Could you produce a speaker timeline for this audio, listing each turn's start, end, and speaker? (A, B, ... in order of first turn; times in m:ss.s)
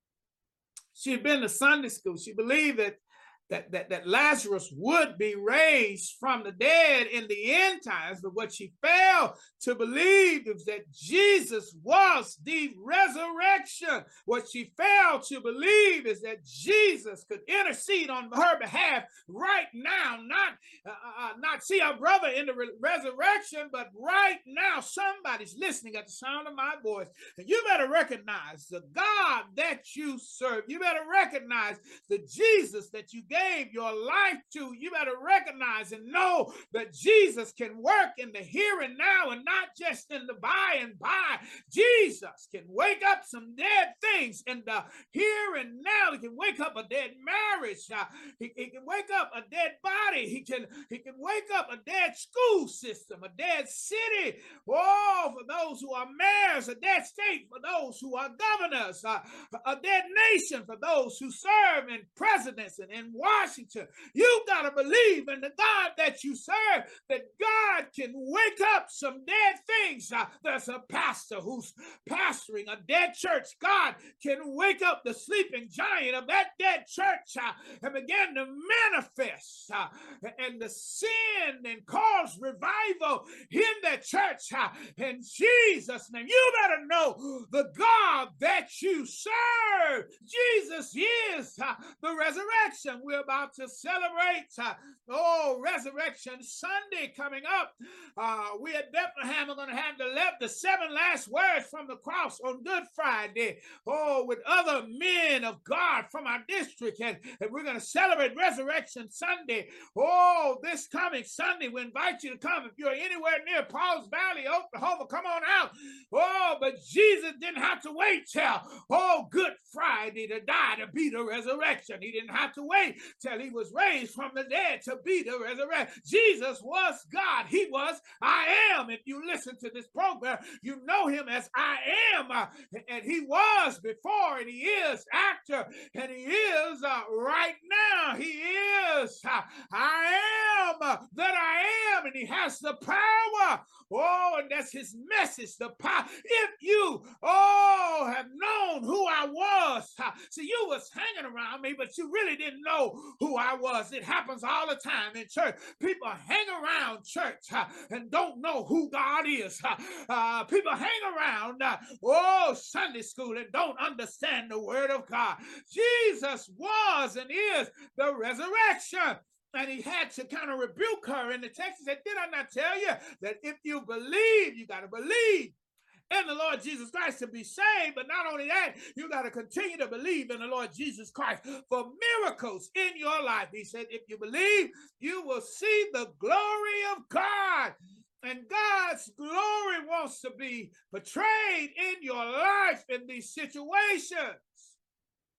0:00.9-2:55.6 A
2:56.1-3:14.8 A